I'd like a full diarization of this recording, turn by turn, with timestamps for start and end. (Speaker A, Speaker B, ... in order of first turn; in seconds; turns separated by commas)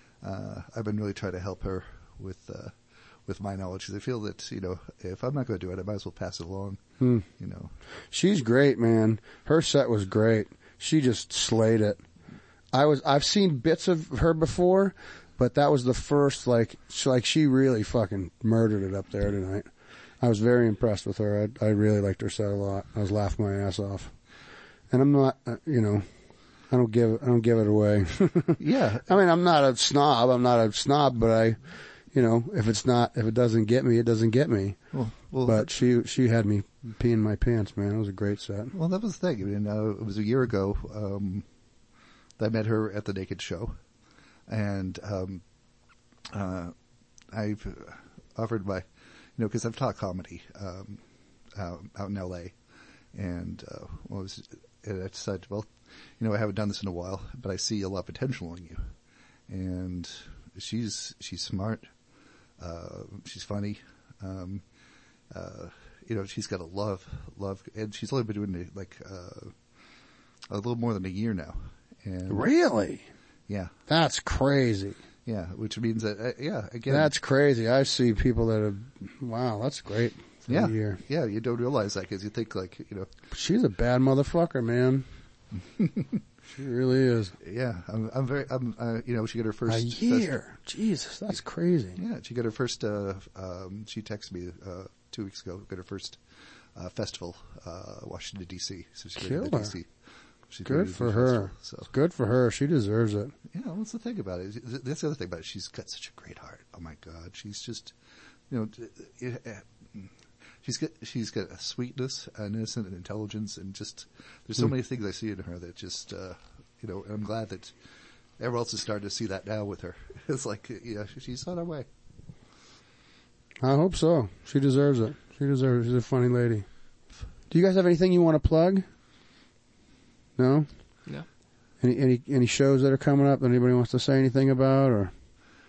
Speaker A: 0.2-7.7, Speaker B: 8.1-12.0, Speaker B: 12.7-19.7, Speaker B: 20.2-24.1, Speaker B: 24.9-26.1, Speaker B: 26.7-31.6, Speaker A: 28.6-29.2, Speaker B: 32.1-34.8, Speaker A: 34.9-35.7, Speaker B: 35.5-38.7, Speaker A: 38.7-41.4, Speaker A: 42.4-43.8, Speaker A: 44.5-45.4, Speaker A: 46.3-46.7, Speaker A: 47.3-48.8, Speaker A: 49.4-51.0, Speaker A: 51.5-52.5, Speaker A: 53.1-58.8, Speaker A: 59.5-61.9, Speaker A: 62.6-64.6, Speaker A: 65.3-69.5, Speaker A: 70.5-72.5, Speaker B: 72.3-73.0, Speaker B: 73.9-75.0, Speaker A: 75.2-77.1, Speaker B: 76.9-81.0, Speaker A: 80.5-83.1, Speaker B: 83.3-85.0, Speaker A: 85.8-86.0, Speaker B: 86.5-87.3, Speaker A: 87.4-90.3, Speaker B: 89.7-92.0, Speaker A: 92.0-96.2, Speaker A: 96.7-99.9, Speaker B: 99.2-99.7, Speaker A: 100.5-101.9, Speaker B: 100.6-103.3, Speaker A: 103.5-107.9, Speaker A: 108.5-110.1, Speaker A: 110.6-117.7, Speaker A: 118.4-121.8, Speaker B: 123.6-126.7, Speaker B: 127.5-128.8, Speaker B: 130.4-130.7, Speaker B: 131.8-135.1